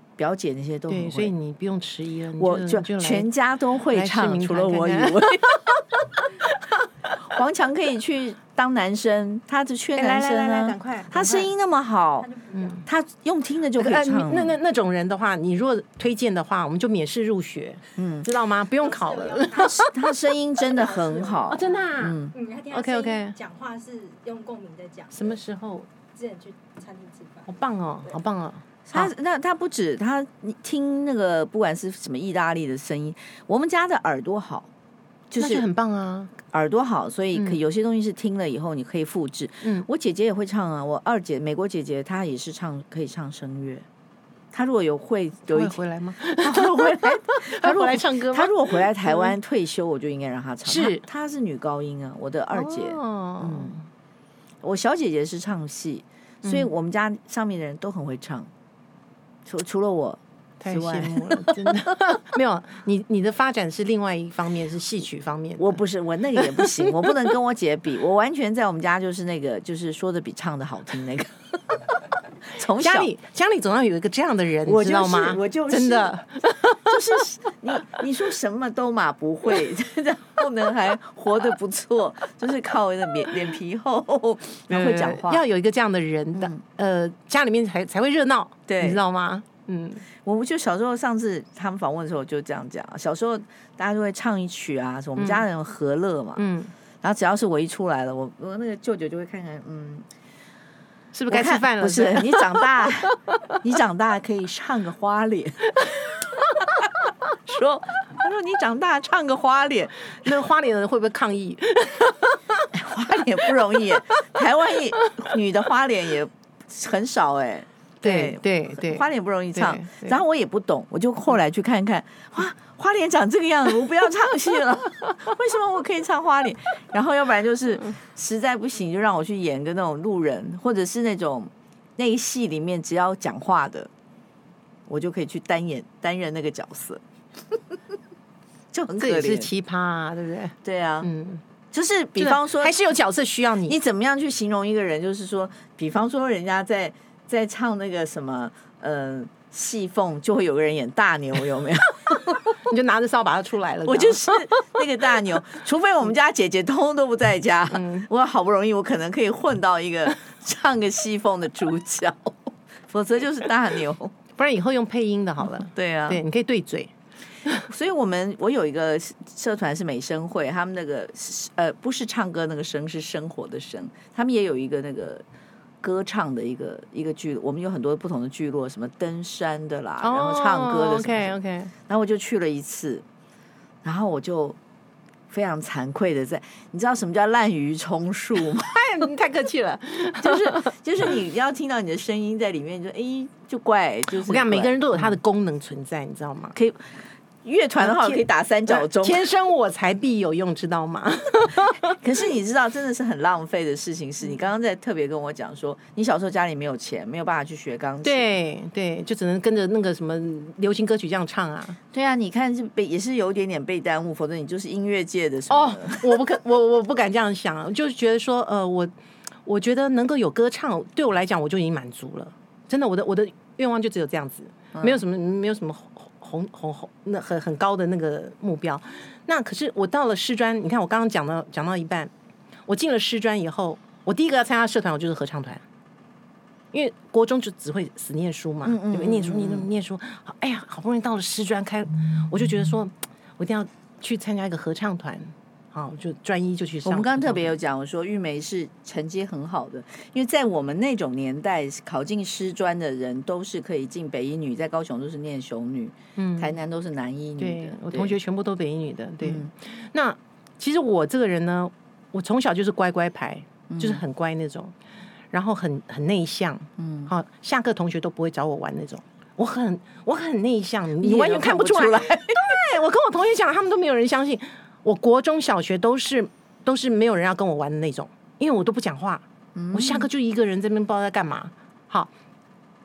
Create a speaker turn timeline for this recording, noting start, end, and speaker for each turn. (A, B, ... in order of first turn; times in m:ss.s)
0:00.2-0:01.3 A
0:00.9-0:03.3 B
0:02.4-0:05.7 A
0:03.9-0:06.2 B
0:07.2-0:12.3 A
0:10.0-0:11.5 B
0:12.2-0:12.8 C
0:12.5-0:12.8 B
0:12.8-0:14.6 A
0:13.8-0:20.1 B
0:18.0-0:18.3 A
0:18.8-0:19.8 C
0:19.5-0:22.3 A
0:20.7-0:25.4 C
0:21.5-0:23.4 B
0:25.1-0:25.9 B
0:26.1-0:27.5 C
0:27.5-0:29.1 B
0:28.9-0:34.7 A
0:35.3-0:35.6 A
0:35.4-0:36.3 B
0:36.4-0:43.8 A
0:44.5-0:45.8 A
0:45.5-0:49.3 B
0:46.4-0:53.7 A
0:50.6-0:51.0 B
0:52.5-0:53.8 B
0:54.6-0:58.5 A
0:56.4-0:56.7 B
0:59.4-1:01.9 A
1:00.6-1:05.8 B
1:05.6-1:11.8 A
1:06.4-1:07.1 B
1:12.4-1:13.1 A
1:12.8-1:17.0 B
1:14.6-1:16.2 A
1:16.8-1:25.4 A
1:24.7-1:30.0 B
1:26.3-1:26.6 A
1:28.7-1:29.0 A
1:30.2-1:36.4 A
1:35.2-1:35.4 B
1:36.4-1:36.7 B
1:37.0-1:40.0 A
1:41.1-1:43.5 B
1:41.3-1:45.8 A
1:47.5-1:50.3 A
1:50.2-1:52.7 B
1:52.7-2:13.9 A
1:58.0-1:59.0 B
1:59.5-2:00.2 B
2:14.9-2:17.8 A
2:18.7-2:19.5 A
2:19.0-2:21.4 B
2:20.6-2:21.1 A
2:21.7-2:22.7 A
2:22.2-2:23.8 B
2:23.6-2:32.6 A
2:32.6-2:35.4 B
2:33.8-2:42.4 A
2:37.7-2:38.1 B
2:42.9-2:44.1 A
2:44.4-2:46.9 B
2:45.4-2:46.2 A
2:47.6-2:55.2 A
2:55.8-3:03.0 A
3:00.0-3:01.7 B
3:03.8-3:04.6 A
3:05.3-3:08.7 A
3:08.6-3:10.7 B
3:10.2-3:15.2 A
3:14.2-3:16.6 B
3:16.5-3:19.2 A
3:17.8-3:22.0 B
3:21.9-3:28.2 A
3:28.0-3:31.8 B
3:31.9-3:36.2 A
3:35.5-3:38.9 B
3:39.4-3:52.1 B
3:44.7-3:45.0 A
3:52.7-3:55.6 B
3:56.7-4:07.5 B
3:58.6-3:59.7 A
4:06.8-4:18.2 A
4:16.2-4:16.6 B
4:17.4-4:24.7 B
4:19.2-4:19.5 A
4:23.7-4:24.0 A
4:25.3-4:42.1 B
4:26.8-4:27.1 A
4:31.0-4:32.6 A
4:39.5-4:40.1 A